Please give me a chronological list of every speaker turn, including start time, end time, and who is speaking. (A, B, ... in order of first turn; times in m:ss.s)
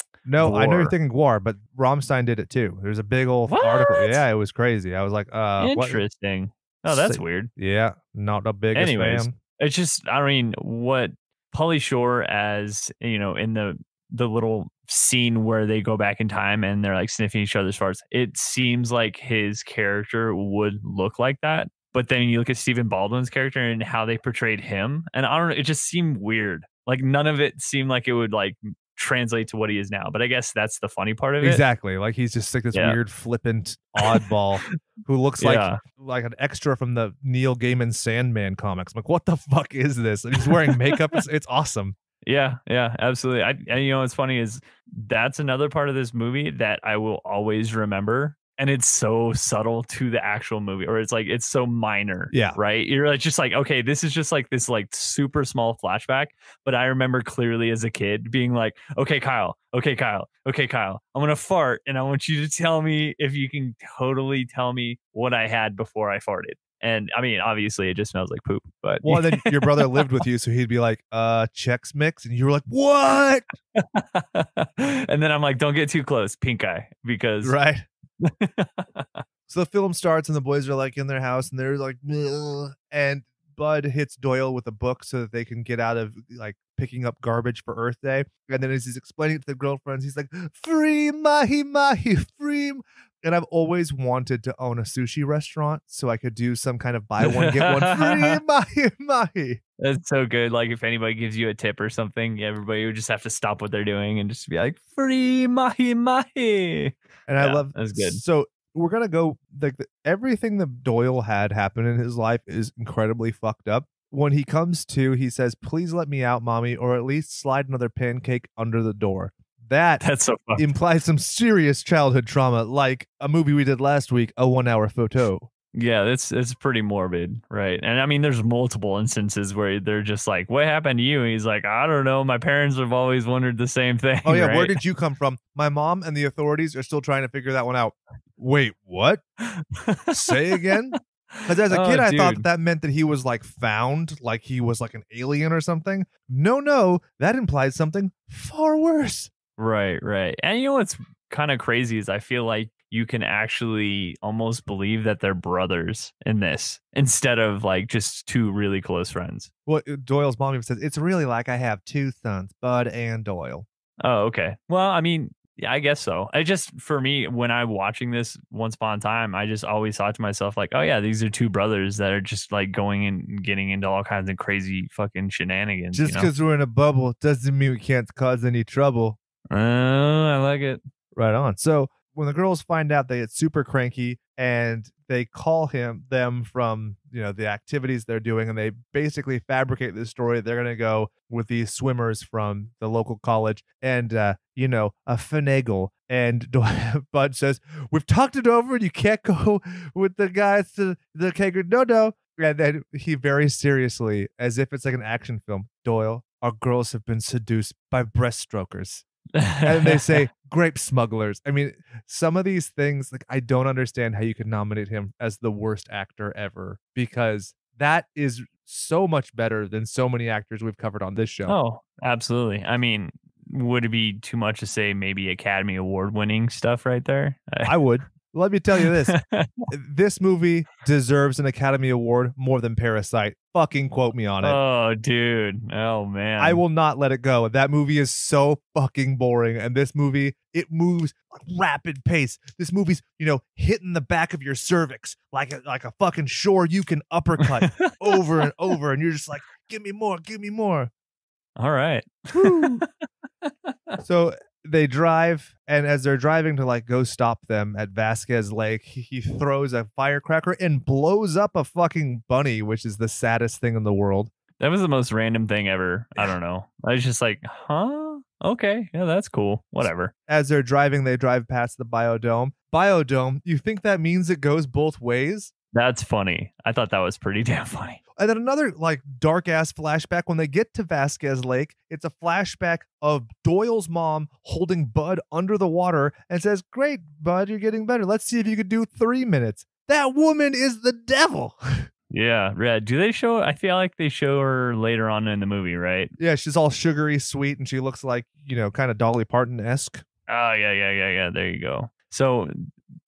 0:00.2-0:06.0 A
0:00.4-0:01.0 B
0:03.5-0:04.2 B
0:05.6-0:07.5 B
0:06.9-0:09.4 A
0:08.7-0:31.6 B
0:31.4-0:42.0 A
0:35.4-0:35.8 B
0:42.2-1:10.0 B
0:52.3-0:52.6 A
1:09.0-1:13.5 A
1:13.8-1:17.6 B
1:17.4-1:17.9 A
1:18.2-1:19.1 B
1:19.5-1:39.6 A
1:37.2-1:38.3 B
1:39.8-1:48.2 B
1:47.3-2:00.0 A
2:00.0-2:00.7 B
2:00.6-2:05.5 A
2:05.7-2:14.8 B
2:14.2-2:19.2 A
2:19.4-2:22.5 B
2:20.1-2:29.3 A
2:29.6-2:39.5 B
2:39.7-2:43.7 A
2:44.0-2:56.3 B
2:55.9-2:59.2 A
2:59.5-3:00.8 B
3:01.2-3:29.1 A
3:29.4-3:30.3 B
3:29.6-3:41.6 A
3:41.5-3:47.8 B
3:47.7-3:49.2 A
3:48.8-3:49.6 B
3:49.7-3:54.6 A
3:54.4-3:56.6 B
3:56.4-4:10.9 A
4:11.6-4:12.9 B
4:12.3-4:12.8 A
4:13.4-4:14.0 B
4:14.0-4:24.3 A
4:24.6-4:30.1 B
4:30.3-4:35.5 A
4:35.7-4:38.0 B
4:38.2-4:51.9 A
4:52.1-4:56.1 B
4:56.2-5:00.0 A
5:00.3-5:02.7 B